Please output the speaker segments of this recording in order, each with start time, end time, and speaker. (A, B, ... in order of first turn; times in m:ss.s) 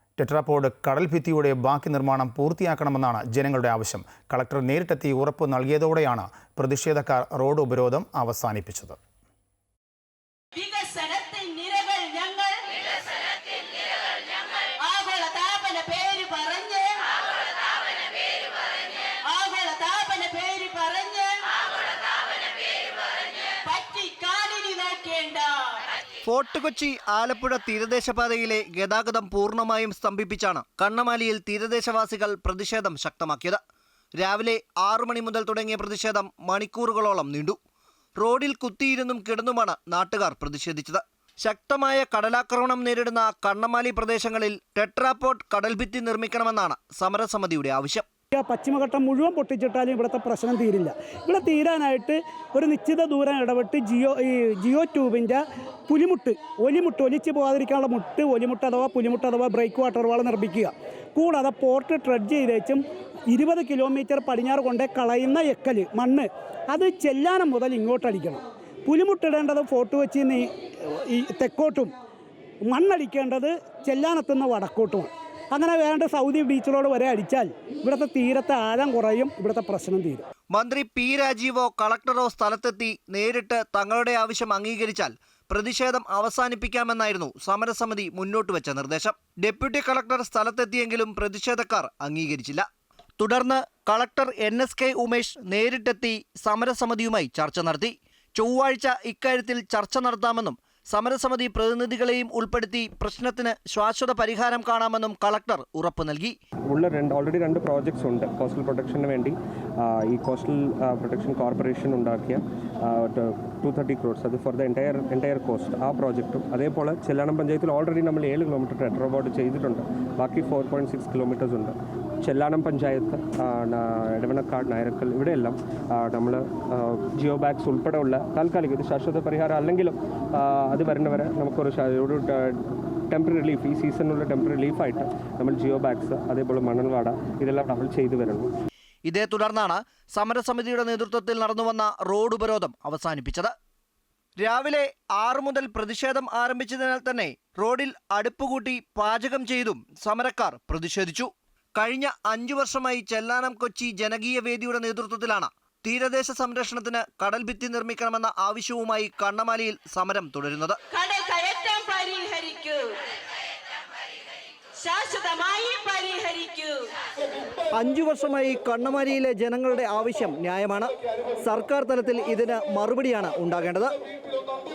0:00.2-0:09.0 A
0:10.5-0:12.9 B
0:14.6-0:17.2 B
0:18.0-0:18.5 B
0:19.2-0:21.7 B
0:23.5-0:25.9 B
0:26.2-0:33.6 C
0:34.2-0:37.6 C
0:38.2-0:48.1 C
0:48.3-1:11.9 D
1:12.6-1:20.3 D
1:20.5-1:32.7 C
1:33.2-1:46.4 C
1:46.7-2:18.5 E
2:19.1-2:23.5 C
2:24.4-2:40.8 C
2:40.9-2:43.0 B
2:44.8-2:46.9 B
2:47.8-2:50.9 C
2:51.4-2:53.9 C